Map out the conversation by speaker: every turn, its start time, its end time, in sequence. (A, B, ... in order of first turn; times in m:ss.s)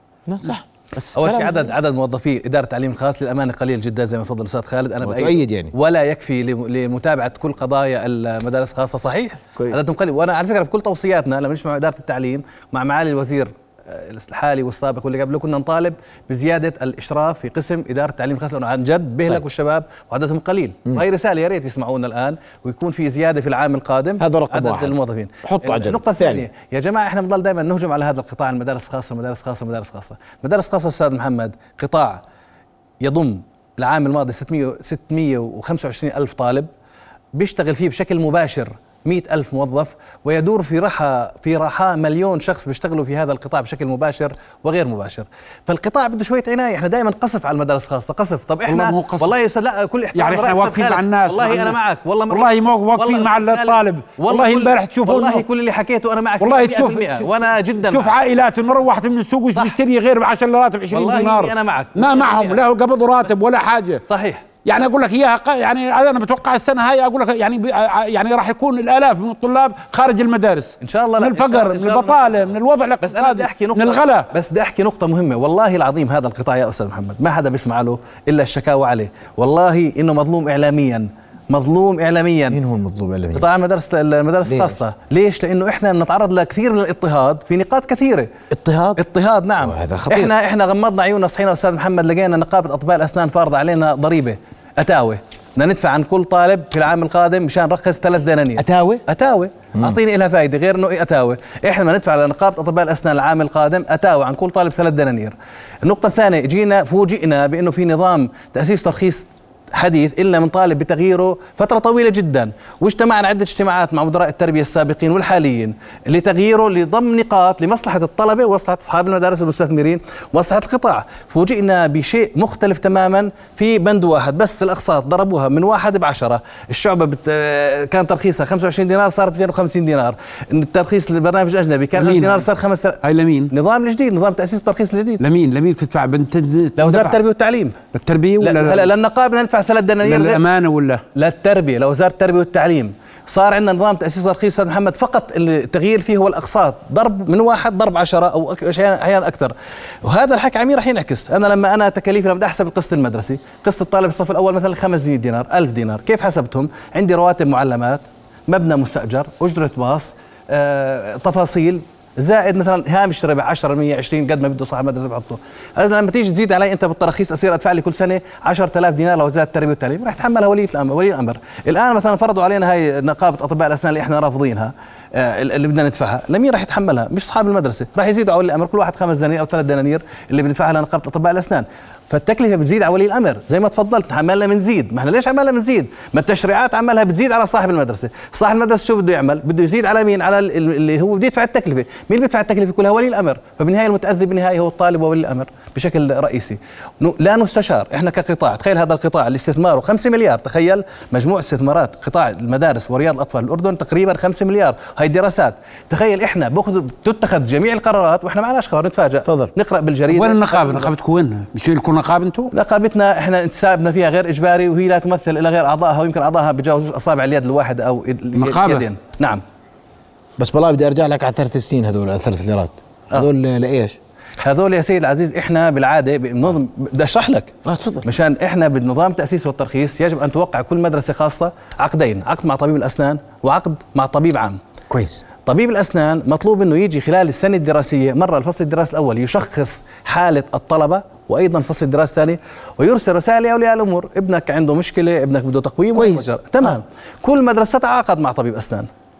0:00.3-0:01.7 A
0:01.1-0:32.2 B
0:05.0-0:05.7 A
0:24.2-0:26.4 A
0:33.0-0:36.7 B
0:37.3-0:58.1 B
0:48.7-0:49.3 C
0:50.1-0:51.8 C
0:52.3-0:55.4 C
0:56.4-0:57.3 C
0:57.9-1:04.0 C
1:00.9-1:02.6 B
1:04.0-1:04.4 B
1:04.6-1:14.3 C
1:10.8-1:22.6 B
1:22.5-1:23.5 A
1:23.3-1:28.3 B
1:24.4-1:24.8 A
1:28.5-1:29.0 A
1:29.0-2:15.2 B
1:29.6-1:30.3 A
1:38.6-1:39.0 A
2:12.0-2:12.4 C
2:13.0-2:13.5 C
2:15.2-2:17.2 C
2:16.8-2:17.8 B
2:17.9-2:18.9 C
2:18.4-2:20.4 B
2:20.0-2:21.0 C
2:21.1-3:30.9 B
3:29.2-3:29.5 A
3:30.1-3:32.5 C
3:32.5-3:39.4 B
3:38.3-3:38.9 C
3:40.4-3:44.0 A
3:44.4-3:54.6 B
3:47.6-3:48.1 A
3:54.9-3:55.2 A
3:55.4-4:08.9 B
4:05.9-4:06.8 A